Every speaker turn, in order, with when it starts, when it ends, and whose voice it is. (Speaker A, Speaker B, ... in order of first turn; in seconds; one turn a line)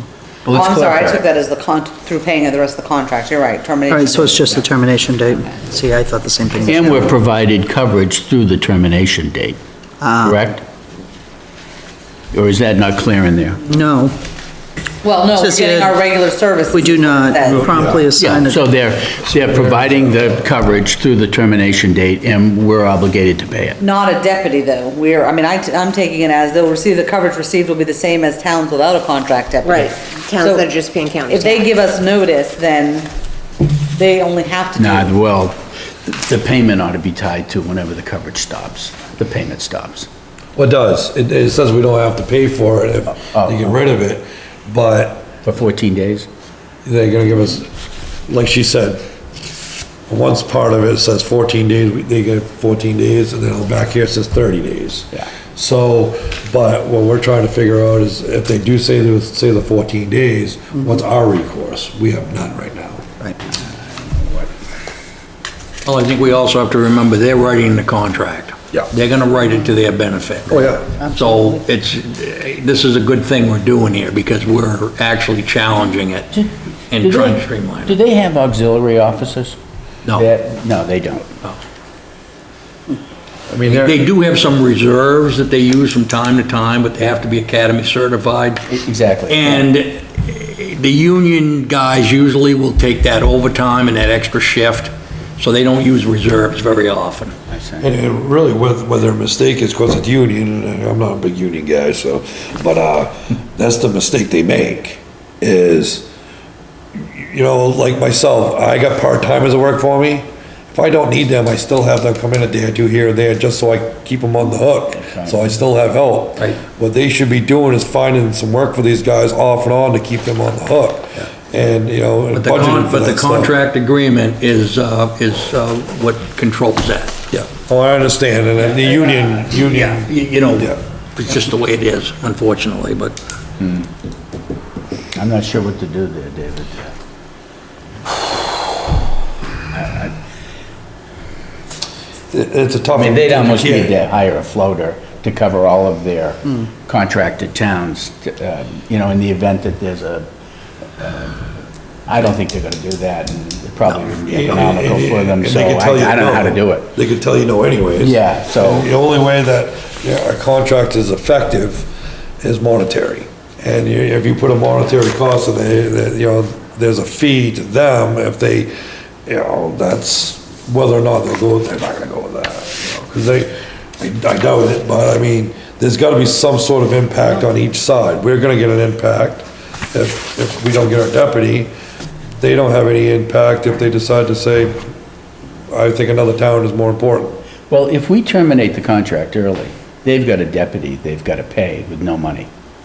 Speaker A: 0.5-1.2
Speaker B: 0.5-4.7
Speaker C: 3.9-7.1
Speaker A: 6.6-9.6
Speaker C: 10.0-10.4
Speaker A: 10.2-10.6
Speaker A: 12.3-13.6
Speaker C: 13.7-14.2
Speaker B: 15.0-17.7
Speaker C: 15.3-16.0
Speaker C: 16.7-18.6
Speaker D: 17.5-18.1
Speaker A: 18.2-23.8
Speaker D: 19.3-20.3
Speaker B: 23.8-30.7
Speaker E: 29.6-31.7
Speaker B: 31.3-33.1
Speaker B: 34.0-35.1
Speaker A: 34.8-40.1
Speaker D: 40.6-45.3
Speaker A: 43.3-43.6
Speaker A: 45.4-46.3
Speaker D: 46.9-47.7
Speaker D: 48.3-49.0
Speaker D: 50.1-63.0
Speaker F: 65.8-76.4
Speaker D: 70.5-70.9
Speaker F: 76.9-78.0
Speaker A: 77.0-79.6
Speaker A: 80.2-81.3
Speaker D: 83.5-84.0
Speaker F: 83.7-88.6
Speaker A: 88.7-89.7
Speaker F: 89.3-97.3
Speaker A: 97.5-97.9
Speaker D: 97.8-106.1
Speaker D: 107.0-123.5
Speaker A: 115.0-115.4
Speaker F: 122.3-127.2
Speaker D: 127.3-130.8
Speaker F: 129.5-133.2
Speaker A: 133.6-133.9
Speaker A: 135.2-136.9
Speaker A: 139.7-140.1
Speaker D: 142.3-144.0
Speaker A: 143.0-150.2
Speaker A: 151.0-151.4
Speaker A: 152.1-156.9
Speaker D: 154.1-161.9
Speaker A: 158.0-158.9
Speaker D: 162.4-168.7
Speaker D: 169.3-181.7
Speaker D: 182.4-184.8
Speaker D: 185.7-187.4
Speaker A: 187.7-192.5